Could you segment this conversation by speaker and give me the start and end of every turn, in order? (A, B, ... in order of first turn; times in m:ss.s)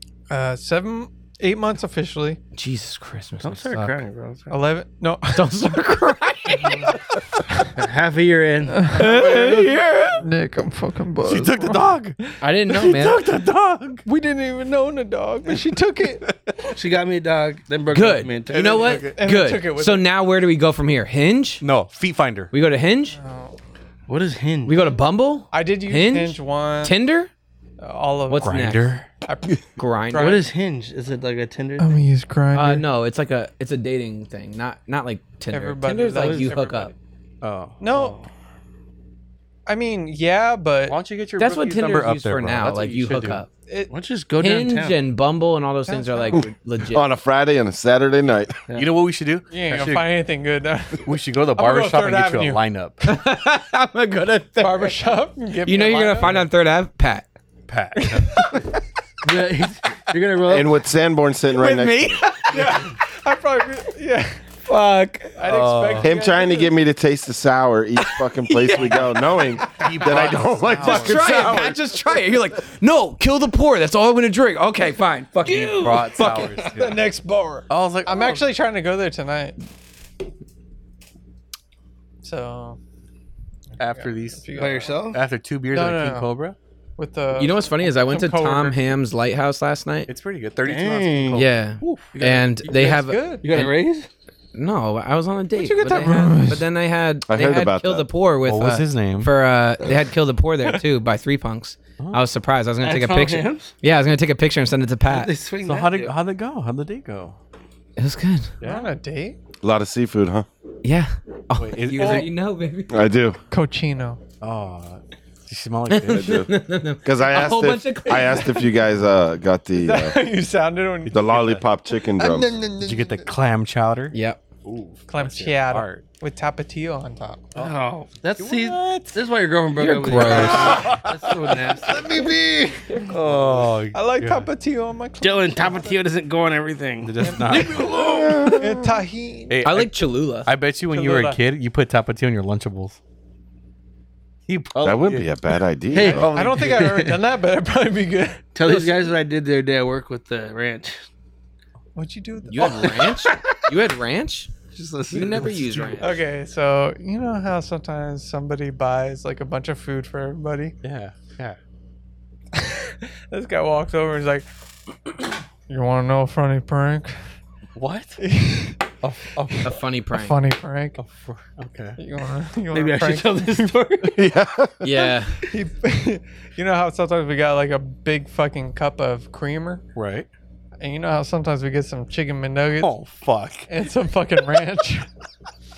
0:00.3-0:02.4 A
0:02.6-0:03.9 B
0:03.4-0:04.6 C
0:04.5-0:05.8 A
0:05.4-0:07.0 B
0:06.6-0:06.9 C
0:07.8-0:08.9 C
0:08.7-0:12.0 A
0:08.9-0:10.2 B
0:11.2-0:12.2 D
0:12.4-0:13.2 B
0:12.7-0:14.0 D
0:14.0-0:16.2 A
0:16.2-0:16.5 D
0:16.7-0:19.0 C
0:17.9-0:21.6 B
0:18.5-0:19.2 D
0:19.2-0:20.1 A
0:21.6-0:22.5 D
0:22.5-0:23.2 B
0:23.1-0:23.6 A
0:24.1-0:24.9 C
0:24.7-0:27.3 B
0:25.5-0:27.0 A
0:27.8-0:28.6 A
0:28.3-0:29.0 B
0:28.4-0:29.1 D
0:29.3-0:30.4 A
0:29.8-0:30.4 B
0:30.2-0:32.0 C
0:31.8-0:32.9 A
0:32.5-0:36.9 B
0:35.5-0:37.0 A
0:36.1-0:36.6 C
0:37.4-0:37.8 D
0:37.8-0:38.2 A
0:37.9-0:38.3 C
0:39.7-0:41.0 A
0:40.9-0:43.4 D
0:41.4-0:43.5 B
0:43.7-0:43.9 A
0:43.9-0:45.0 C
0:44.4-0:47.0 B
0:45.9-0:46.4 A
0:46.3-0:48.6 E
0:48.7-0:50.1 D
0:49.5-0:52.6 A
0:51.0-0:53.0 D
0:53.0-0:57.3 B
0:54.6-0:56.3 A
0:57.7-0:58.5 D
0:58.0-0:58.3 A
0:59.2-1:00.8 C
1:00.5-1:02.2 E
1:01.6-1:02.5 B
1:02.5-1:04.4 A
1:04.7-1:05.4 B
1:05.4-1:06.7 A
1:05.4-1:06.1 D
1:06.0-1:11.8 E
1:09.7-1:11.6 D
1:10.0-1:11.6 A
1:10.8-1:16.3 B
1:15.4-1:16.6 C
1:15.5-1:19.6 A
1:15.8-1:17.1 D
1:17.7-1:18.4 D
1:22.2-1:22.8 A
1:23.8-1:26.6 D
1:23.8-1:25.0 A
1:24.6-1:25.2 C
1:25.7-1:26.4 A
1:27.0-1:29.0 A
1:27.4-1:30.1 B
1:30.1-1:32.1 D
1:30.6-1:31.4 C
1:31.4-1:33.7 B
1:32.1-1:32.5 C
1:32.6-1:33.5 A
1:33.4-1:34.1 C
1:34.5-1:45.3 B
1:35.6-1:36.6 A
1:37.3-1:38.1 E
1:38.4-1:39.4 D
1:42.0-1:42.2 D
1:42.8-1:43.7 C
1:45.1-1:46.2 C
1:45.6-1:47.4 D
1:48.0-1:48.5 B
1:48.6-1:48.9 D
1:48.6-1:49.4 A
1:49.6-1:50.5 E
1:50.8-1:53.0 B
1:51.6-1:52.3 D
1:52.0-1:52.3 A
1:52.9-1:53.4 E
1:53.5-1:54.2 A
1:54.4-1:56.5 D
1:55.9-1:58.7 B
1:56.1-1:56.5 E
1:57.0-2:00.2 E
1:59.8-2:01.4 A
2:01.1-2:01.6 D
2:01.1-2:02.5 E
2:02.0-2:03.3 A
2:02.8-2:06.0 D
2:04.1-2:04.4 B
2:05.1-2:07.5 A
2:07.6-2:12.1 C
2:08.4-2:08.8 D
2:09.8-2:10.9 B
2:10.2-2:12.3 D
2:11.9-2:13.1 A
2:12.9-2:13.2 B
2:13.1-2:14.5 D
2:13.9-2:16.0 A
2:15.2-2:17.4 C
2:17.0-2:18.1 D
2:17.2-2:19.6 A
2:17.7-2:18.4 B
2:17.9-2:19.0 E
2:19.5-2:23.0 D
2:19.6-2:20.5 B
2:20.9-2:21.4 A
2:24.5-2:25.5 D
2:24.8-2:26.6 E
2:25.9-2:26.7 C
2:26.1-2:27.2 D
2:26.2-2:28.4 A
2:28.6-2:31.0 C
2:28.7-2:28.9 B
2:32.0-2:33.2 A
2:32.5-2:34.5 B
2:32.6-2:33.4 C
2:34.7-2:36.0 C
2:35.1-2:36.2 B
2:36.0-2:40.8 A
2:40.8-2:41.6 D
2:42.5-2:44.5 A
2:45.7-2:47.2 A
2:47.8-2:48.2 D
2:48.2-2:48.9 A
2:49.0-2:49.7 D
2:49.4-2:51.0 A
2:49.6-2:50.4 B
2:51.0-2:52.0 D
2:52.0-2:54.1 A
2:52.7-2:54.2 C
2:54.2-2:54.8 E
2:54.8-2:55.4 B
2:55.5-2:59.9 A
3:00.0-3:00.3 D
3:00.8-3:03.0 A
3:02.8-3:03.7 D
3:03.7-3:05.1 A